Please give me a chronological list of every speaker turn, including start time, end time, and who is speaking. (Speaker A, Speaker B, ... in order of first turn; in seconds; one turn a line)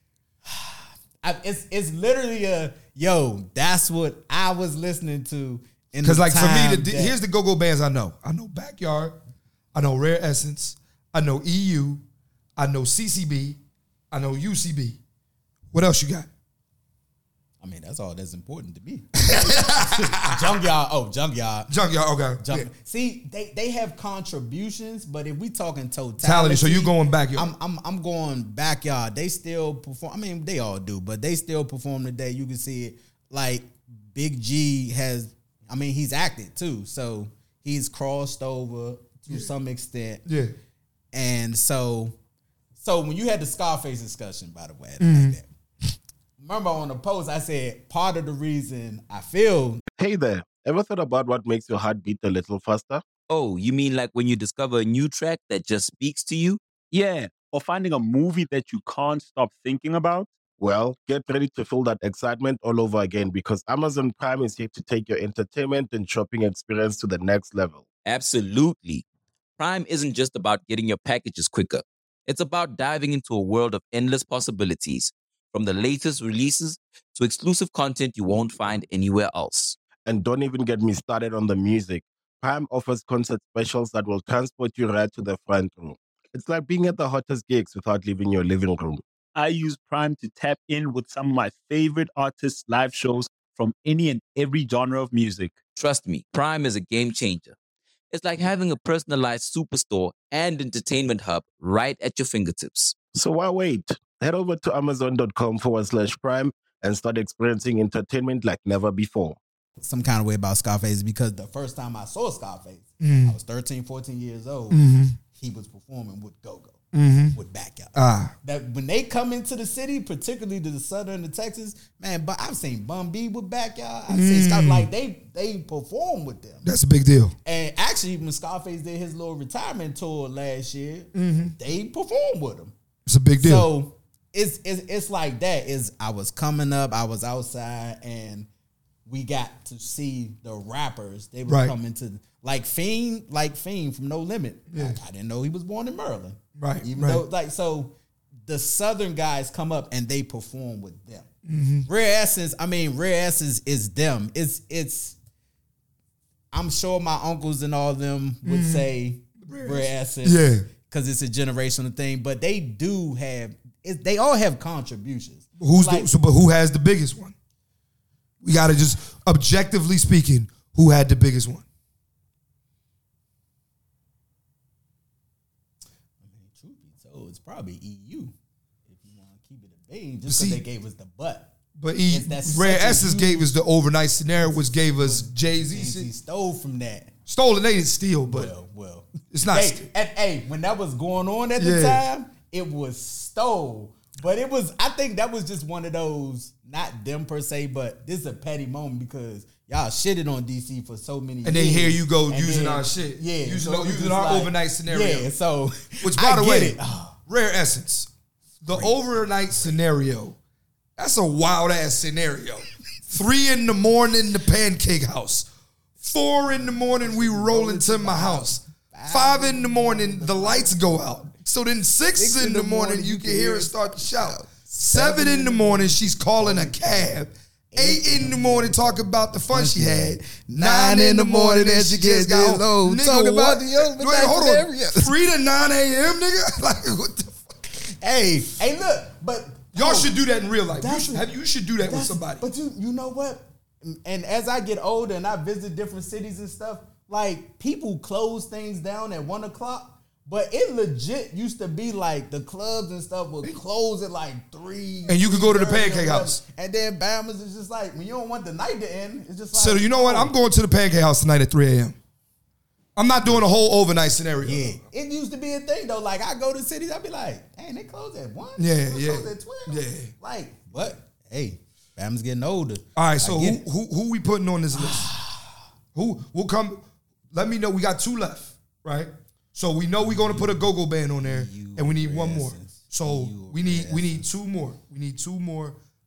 Speaker A: 0.5-7.2
Speaker B: 6.0-9.2
Speaker B: 9.7-12.0
Speaker B: 12.6-13.6
Speaker B: 14.1-15.0
Speaker B: 15.7-16.3
Speaker A: 17.6-21.7
Speaker B: 19.2-20.5
Speaker B: 21.7-22.7
Speaker A: 22.4-40.3
Speaker B: 26.2-27.5
Speaker B: 40.3-40.5
Speaker A: 41.1-42.2
Speaker A: 42.8-45.5
Speaker B: 45.0-45.4
Speaker A: 46.4-49.8
Speaker C: 50.0-53.0
Speaker D: 53.3-56.6
Speaker E: 56.9-60.3
Speaker C: 60.6-67.8
Speaker D: 68.0-69.0
Speaker D: 69.6-79.8
Speaker C: 80.0-89.0
Speaker E: 89.3-95.6
Speaker D: 95.7-97.5
Speaker D: 98.1-103.0
Speaker C: 103.1-109.4
Speaker A: 109.8-116.8
Speaker B: 113.0-113.4
Speaker B: 114.7-115.2
Speaker B: 116.9-117.4
Speaker A: 117.3-126.7
Speaker B: 118.0-118.3
Speaker B: 124.1-124.9
Speaker B: 126.6-127.3
Speaker A: 127.5-132.7
Speaker B: 131.1-131.6
Speaker B: 133.1-133.7
Speaker A: 133.4-138.5
Speaker A: 139.1-147.9
Speaker B: 141.4-141.7
Speaker B: 144.7-145.0
Speaker B: 146.6-147.2
Speaker A: 148.4-151.3
Speaker B: 151.4-151.9
Speaker A: 151.9-155.2
Speaker A: 156.5-166.1
Speaker B: 158.4-160.7
Speaker B: 165.6-167.3
Speaker B: 168.4-171.6
Speaker A: 176.2-178.3
Speaker A: 178.9-181.5
Speaker B: 180.3-180.6
Speaker B: 181.8-186.1
Speaker A: 182.1-183.5
Speaker A: 184.4-187.1
Speaker B: 187.3-188.5
Speaker A: 188.3-207.2
Speaker B: 189.3-189.9
Speaker B: 191.6-192.0
Speaker B: 201.4-205.3
Speaker B: 206.0-208.1
Speaker B: 208.6-210.4
Speaker A: 208.6-209.0
Speaker B: 211.0-215.5
Speaker B: 216.0-237.7
Speaker A: 216.6-221.3
Speaker A: 222.2-227.2
Speaker A: 227.7-235.1
Speaker A: 238.0-240.1
Speaker B: 239.7-242.4
Speaker A: 240.7-260.3
Speaker B: 255.1-256.4
Speaker B: 259.5-262.0
Speaker B: 262.9-264.8
Speaker A: 264.4-273.6
Speaker B: 268.6-270.1
Speaker B: 272.9-275.1
Speaker A: 274.7-275.6
Speaker B: 275.9-285.8
Speaker A: 280.0-280.6
Speaker A: 281.2-284.3